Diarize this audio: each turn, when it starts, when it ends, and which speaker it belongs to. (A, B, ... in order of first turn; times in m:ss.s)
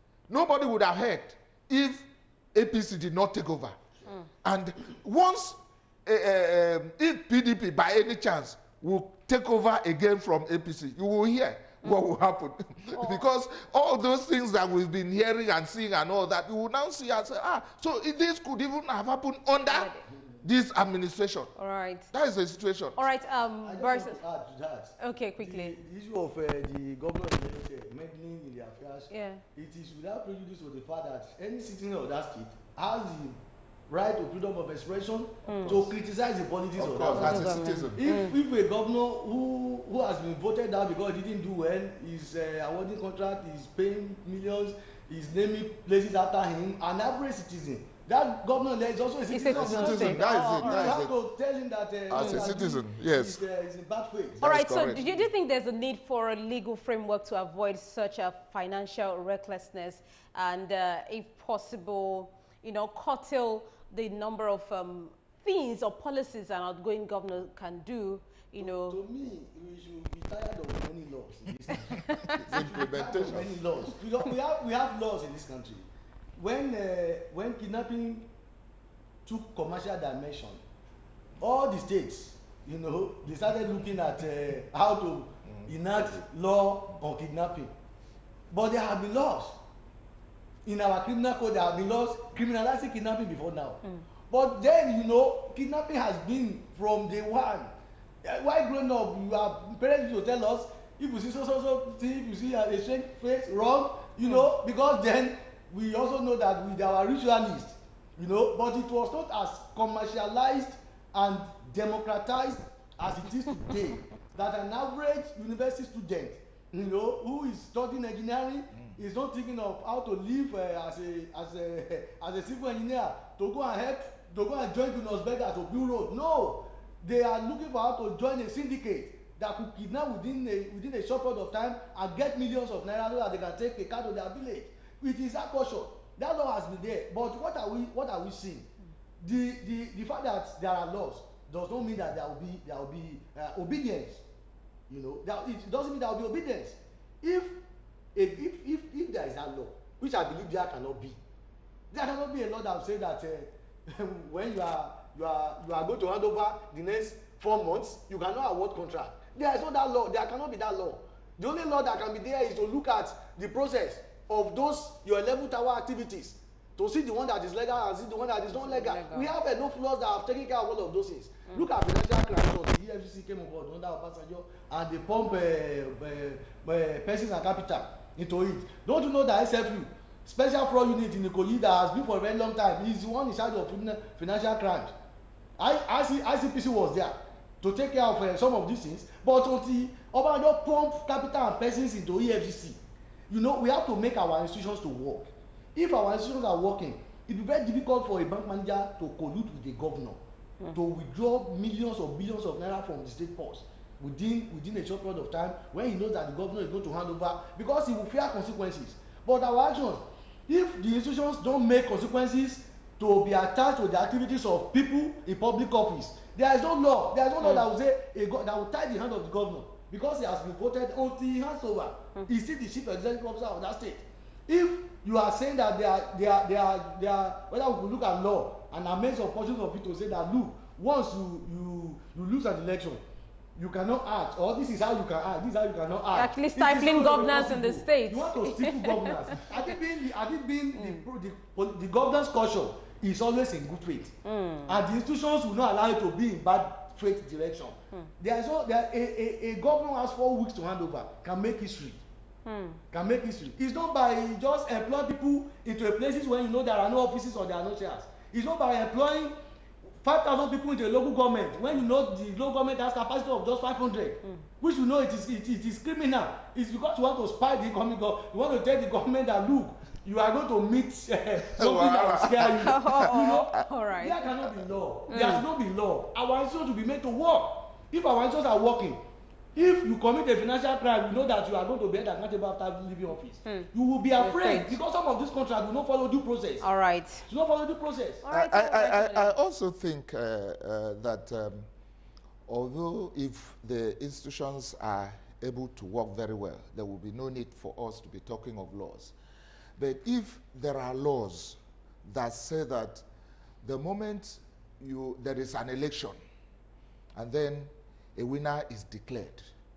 0:00.3-0:03.8 A
0:04.4-0:21.5 A
0:12.9-0:13.2 B
0:19.7-0:20.0 B
0:21.6-0:22.1 B
0:22.1-0:23.0 A
0:23.0-0:24.2 B
0:23.6-0:55.2 C
0:25.0-0:25.7 B
0:29.1-0:29.4 B
0:35.5-0:35.9 B
0:36.8-0:38.0 A
0:37.1-0:38.4 B
0:49.3-0:51.1 B
0:49.5-0:51.1 A
0:52.1-0:53.4 A
0:52.2-0:52.5 B
0:54.4-0:55.0 A
0:54.4-1:09.0 B
1:08.6-1:18.3 C
1:12.0-1:12.6 B
1:12.3-1:14.0 A
1:19.2-1:20.6 C
1:21.4-1:27.7 C
1:25.5-1:26.2 A
1:28.5-1:29.6 C
1:30.6-2:18.7 C
2:19.2-2:24.2 C
2:24.9-2:27.6 C
2:28.1-2:31.2 C
2:31.9-3:04.9 C
2:48.5-2:49.3 B
3:05.6-3:20.2 C
3:20.7-3:53.0 C
3:53.6-4:04.1 C
3:56.1-3:59.4 B
4:00.8-4:01.0 B
4:04.2-4:04.8 B
4:04.7-4:12.0 C
4:12.4-4:12.8 B
4:12.9-4:19.4 C
4:20.0-4:39.0 C
4:31.4-4:33.6 A
4:32.5-4:34.2 B
4:35.1-4:35.4 B
4:39.5-4:46.6 C
4:43.4-4:44.8 B
4:46.6-4:47.3 B
4:47.3-4:48.2 C
4:48.2-4:49.3 B
4:48.3-4:51.7 A
4:52.5-4:59.1 A
4:59.8-5:03.0 A
5:03.6-5:06.2 A
5:07.1-5:09.5 A